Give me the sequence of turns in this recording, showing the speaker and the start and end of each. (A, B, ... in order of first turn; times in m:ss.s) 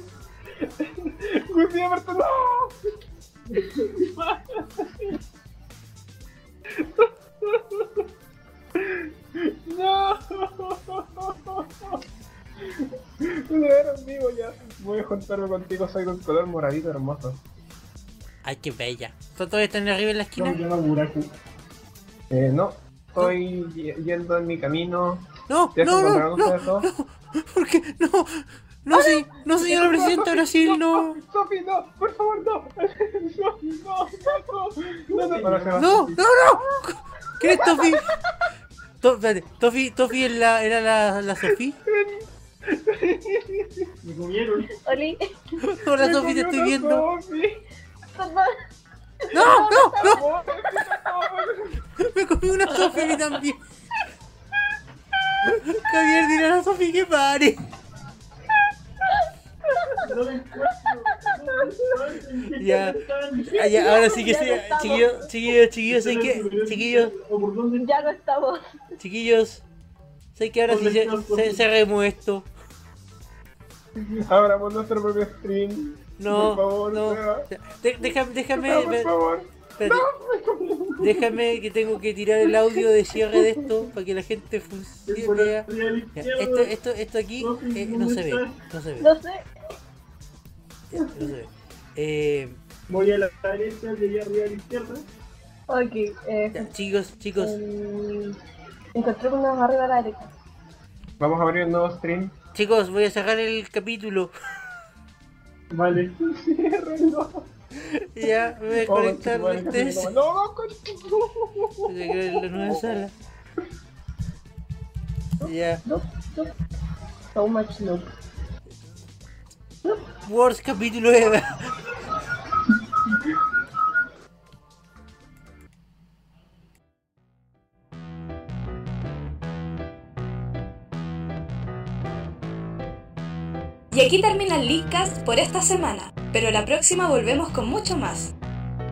0:00.6-0:02.8 A
0:04.0-0:05.0 A
0:06.8-0:07.9 A
0:08.7-0:12.0 A
0:12.6-0:17.4 A
0:18.4-0:20.6 B
0:20.4-0:21.3 C
0:22.3-0:26.9 A
0:25.5-0:31.2 B
0:29.6-0:36.2 A
0:35.1-0:36.1 C
0:35.8-0:38.0 B
0:37.7-0:38.0 D
0:39.0-0:41.8 B
0:41.8-0:43.9 A
0:44.0-0:44.8 C
0:44.8-0:45.3 D
0:45.6-0:47.0 B
0:46.0-0:47.6 A
0:48.1-0:48.6 D
0:49.3-0:51.0 D
0:49.3-0:50.2 B
0:50.0-0:51.8 A
0:52.0-0:53.6 B
0:55.1-0:55.6 A
0:55.5-0:57.6 B
0:59.7-1:00.1 D
1:00.0-1:03.9 C
1:01.1-1:01.6 D
1:02.6-1:03.0 B
1:03.5-1:07.1 B
1:03.5-1:05.3 D
1:05.9-1:08.1 C
1:07.8-1:08.7 D
1:09.0-1:09.6 B
1:10.3-1:12.5 B
1:10.7-1:11.6 C
1:14.2-1:17.5 A
1:16.2-1:19.1 B
1:18.6-1:21.2 A
1:19.8-1:20.0 B
1:21.0-1:25.6 B
1:25.1-1:26.7 C
1:26.2-1:29.1 B
1:27.4-1:28.5 C
1:29.0-1:29.4 D
1:30.9-1:32.6 B
1:30.9-1:31.3 D
1:32.9-1:35.1 C
1:35.7-1:36.7 D
1:36.5-1:37.6 B
1:37.4-1:38.4 D
1:38.9-1:40.3 D
1:41.2-1:42.3 A
1:42.5-1:44.3 B
1:45.7-1:46.1 C
1:46.2-1:47.5 A
1:48.1-1:50.1 B
1:48.8-1:51.9 A
1:51.8-1:53.1 B
1:55.4-1:55.8 B
1:55.4-1:56.5 D
1:57.3-1:58.1 D
2:00.2-2:01.8 B
2:13.9-2:18.3 E